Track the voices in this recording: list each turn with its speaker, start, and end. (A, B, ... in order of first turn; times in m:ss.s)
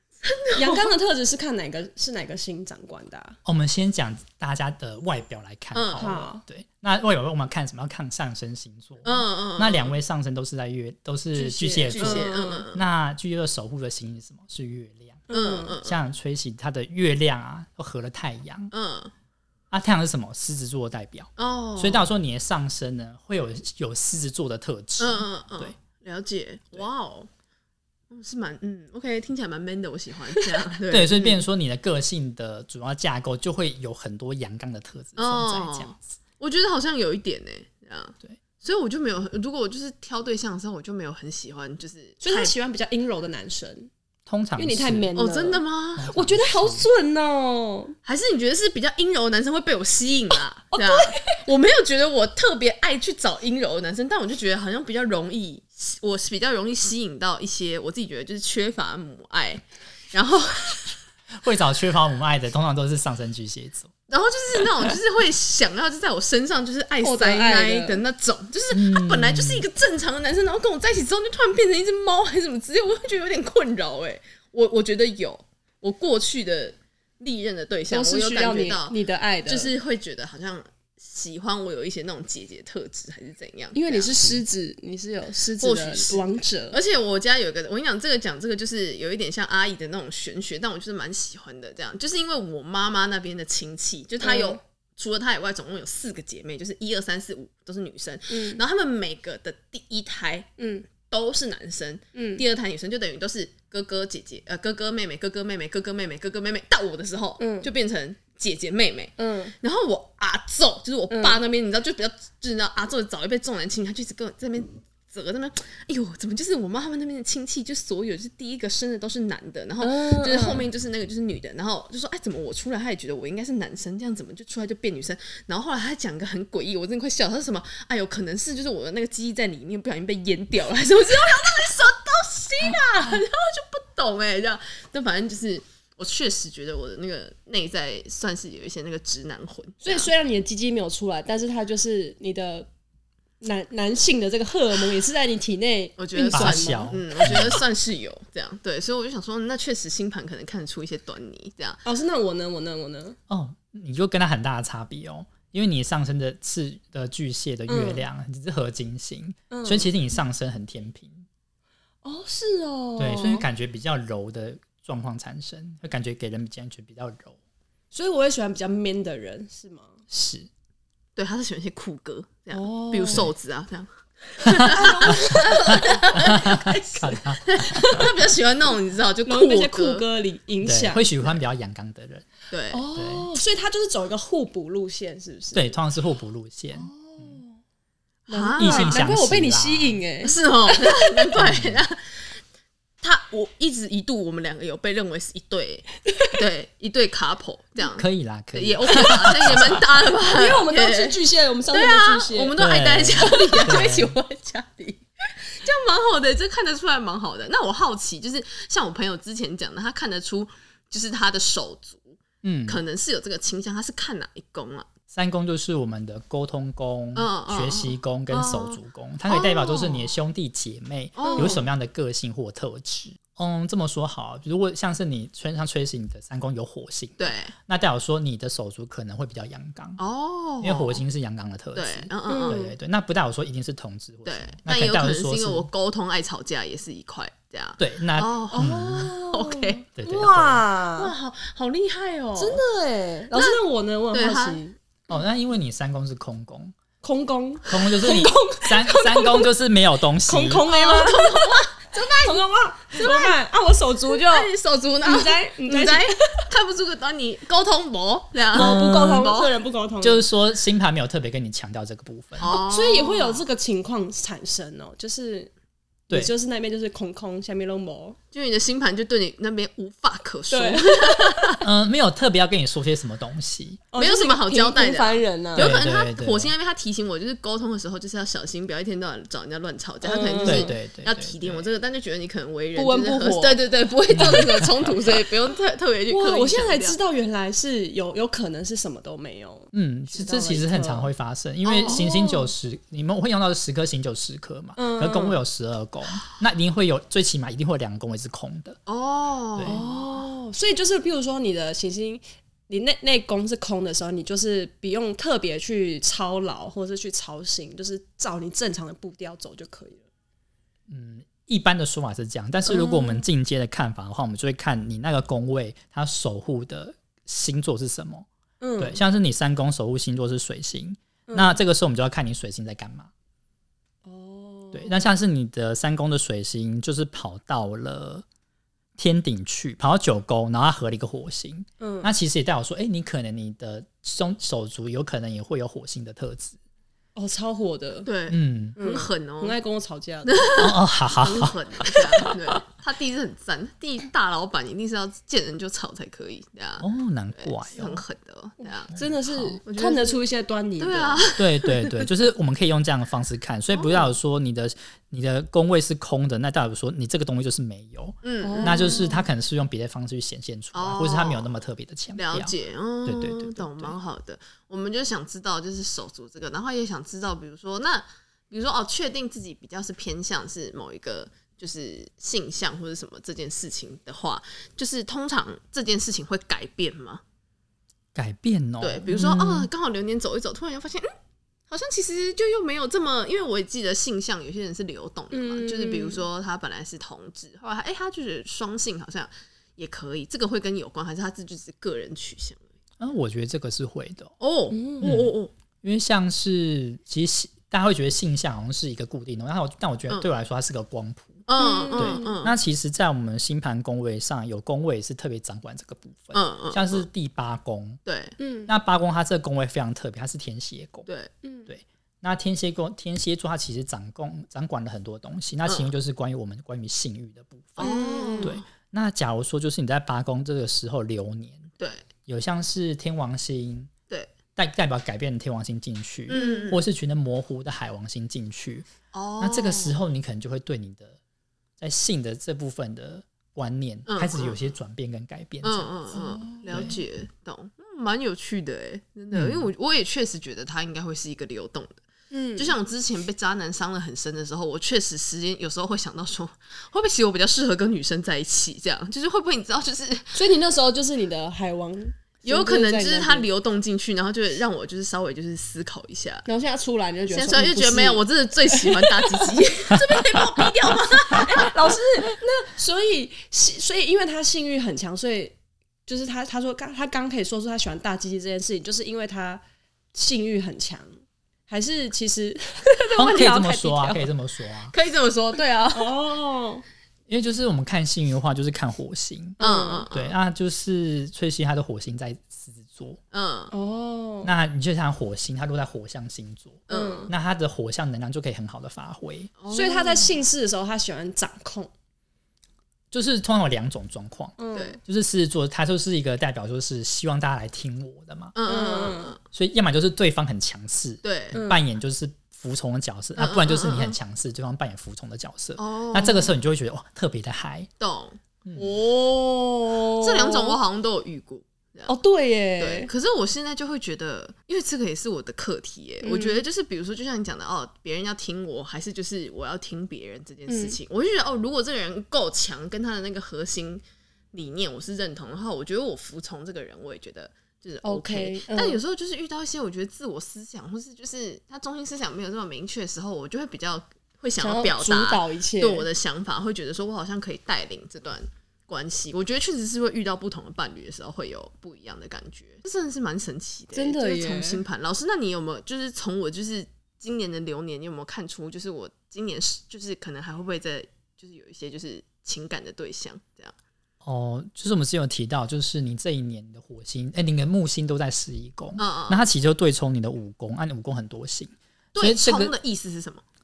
0:00.2-0:00.9 A
0:00.6-0:03.4 B
0:03.4-0:18.7 C
0:05.7-0:06.2 A
0:06.0-0:06.4 B
0:09.0-0:10.0 A
0:11.4-0:12.9 A
0:11.9-0:12.7 B
0:15.3-0:15.8 B
0:15.3-0:16.0 A
0:18.7-0:19.1 A
0:19.7-0:25.8 C
0:21.4-0:22.1 A
0:25.0-0:27.3 A
0:28.1-0:31.4 A
0:30.9-0:36.0 C
0:35.2-0:42.5 A
0:42.2-0:43.9 B
0:44.3-0:45.1 C
0:44.6-0:47.9 B
0:45.2-0:46.1 A
0:46.0-0:46.9 C
0:48.0-1:00.9 A
0:50.8-0:51.4 B
1:01.4-1:03.9 C
1:04.1-1:24.4 A
1:07.0-1:08.0 B
1:08.7-1:09.7 C
1:17.9-1:19.7 B
1:23.7-1:26.8 B
1:25.6-1:40.5 A
1:34.2-1:34.6 B
1:38.3-1:38.6 B
1:40.6-1:40.9 B
1:41.0-2:20.1 A
1:42.1-1:42.4 B
1:47.4-1:47.7 B
1:49.2-1:49.5 B
1:51.1-1:51.4 B
1:59.8-2:00.7 B
2:19.8-2:22.7 B
2:23.4-2:26.9 B
2:26.0-2:31.8 A
2:26.3-2:27.6 C
2:31.8-2:33.2 B
2:33.3-2:41.2 C
2:37.7-2:38.1 B
2:39.5-2:39.9 B
2:42.0-2:43.5 B
2:43.0-2:47.4 C
2:47.9-2:50.0 B
2:50.1-2:50.5 C
2:51.2-3:00.0 A
2:52.5-2:53.3 B
2:54.7-2:56.0 B
2:56.3-2:57.5 C
2:59.2-3:01.2 B
3:00.6-3:02.3 C
3:02.5-3:02.8 A
3:02.7-3:05.8 B
3:02.9-3:03.3 C
3:05.5-3:07.4 C
3:06.7-3:07.6 B
3:08.3-3:10.3 B
3:08.3-3:09.1 A
3:08.6-3:10.0 C
3:10.2-3:12.0 A
3:11.3-3:11.8 C
3:13.0-3:25.0 A
3:18.0-3:19.7 C
3:20.3-3:22.6 B
3:22.6-3:24.1 C
3:23.2-3:23.8 B
3:25.6-3:34.9 A
3:32.4-3:32.8 C
3:35.1-3:50.0 C
3:37.2-3:40.1 A
3:41.2-3:41.7 A
3:41.2-3:41.6 B
3:47.2-3:47.6 A
3:50.0-3:51.0 A
3:50.6-3:55.7 C
3:51.8-3:52.7 A
3:52.3-3:52.7 B
3:54.2-3:59.8 A
3:57.8-3:59.1 C
3:58.5-4:01.1 B
4:00.0-4:00.6 C
4:01.0-4:02.6 A
4:02.4-4:04.8 B
4:03.3-4:03.6 A
4:04.1-4:04.6 A
4:05.1-4:06.7 C
4:07.0-4:09.5 B
4:07.7-4:10.7 C
4:10.2-4:11.4 B
4:10.7-4:13.4 A
4:12.1-4:16.2 B
4:14.1-4:19.5 A
4:18.5-4:19.3 C
4:18.5-4:20.3 B
4:20.0-4:22.5 C
4:22.4-4:23.4 A
4:22.5-4:25.5 B
4:26.1-4:28.2 B
4:28.3-4:31.6 A
4:30.5-4:31.6 B
4:31.6-4:33.8 C
4:33.9-4:35.7 B
4:34.0-4:47.0 A
4:35.6-4:36.5 C
4:40.0-4:40.7 B
4:40.4-4:41.7 C
4:42.8-4:43.6 B
4:44.1-4:44.7 C
4:44.2-4:44.6 B
4:46.1-4:51.1 B
4:49.7-4:58.8 C
4:51.6-4:52.1 A
4:51.8-4:52.5 B
4:54.8-4:55.4 B
4:58.9-5:00.2 A
4:59.6-4:59.8 C
4:59.6-5:10.1 B
5:10.9-5:18.3 C
5:12.7-5:13.3 B
5:18.6-5:19.0 B
5:18.8-5:23.1 C
5:21.3-5:21.6 B
5:24.0-5:25.1 B
5:24.7-5:28.2 C
5:29.0-5:36.6 C
5:31.8-5:32.1 B
5:37.2-5:38.1 B
5:38.0-5:39.6 A
5:38.3-5:38.8 C
5:38.8-5:40.5 B
5:40.2-5:49.1 A
5:40.6-5:41.6 C
5:46.8-5:48.0 C
5:48.6-5:51.2 B
5:48.9-5:49.6 C
5:49.6-5:50.2 A
5:50.8-5:52.0 A
5:51.4-6:04.0 C
5:53.7-5:54.2 A
5:58.2-5:59.1 A
5:58.4-5:59.2 B
6:00.7-6:01.6 A
6:02.2-6:17.2 A
6:18.2-6:19.7 C
6:18.8-6:21.1 A
6:21.7-6:32.6 A
6:25.3-6:26.2 B
6:33.0-6:34.3 C
6:34.4-6:35.5 A
6:34.7-6:35.1 B
6:35.0-6:48.0 C
6:41.5-6:42.6 A
6:41.6-6:42.4 B
6:46.3-6:47.1 A
6:48.0-6:48.4 A
6:48.4-6:48.7 B
6:48.7-6:51.1 C
6:51.4-6:51.7 B
6:51.7-7:01.7 C
6:55.7-6:55.9 A
6:57.8-6:58.6 A
6:57.8-6:58.6 B
7:01.8-7:02.0 A
7:02.3-7:03.9 C
7:04.6-7:11.2 C
7:06.3-7:06.8 A
7:06.3-7:06.7 B
7:09.1-7:10.0 A
7:11.8-7:16.0 C
7:14.1-7:14.7 A
7:15.6-7:22.0 A
7:16.1-7:17.0 B
7:16.7-7:16.9 C
7:19.3-7:19.7 C
7:22.3-7:22.8 B
7:22.6-7:30.4 A
7:30.3-7:33.5 B
7:32.4-7:36.4 A
7:36.4-7:39.1 B
7:37.3-7:41.7 A
7:41.3-7:49.6 B
7:50.1-7:51.1 B
7:51.7-7:54.3 B
7:53.2-7:54.9 C
7:54.9-7:56.2 A
7:55.9-7:56.8 B
7:57.3-7:59.6 C
7:59.6-8:00.1 B
7:59.6-8:00.4 A
8:00.1-8:03.2 C
8:03.3-8:03.7 A
8:03.7-8:04.5 B
8:04.4-8:09.5 C
8:06.9-8:07.3 A
8:06.9-8:07.3 B
8:09.6-8:10.5 A
8:09.7-8:11.9 B
8:13.1-8:18.5 C
8:14.6-8:15.0 B
8:14.7-8:15.0 A
8:18.5-8:19.4 A
8:18.7-8:19.4 B
8:19.5-8:27.9 C
8:21.2-8:21.6 A
8:21.5-8:21.8 B
8:23.4-8:24.2 A
8:25.8-8:26.6 A
8:28.0-8:29.3 A
8:28.8-8:30.8 B
8:30.1-8:32.1 A
8:32.1-8:33.1 B
8:32.8-9:13.7 A
8:36.2-8:36.6 B
8:40.7-8:41.0 B
8:48.0-8:49.0 B
8:54.6-8:56.1 B
9:03.9-9:04.8 B
9:14.2-9:22.8 C
9:19.0-9:19.5 A
9:22.1-9:23.4 A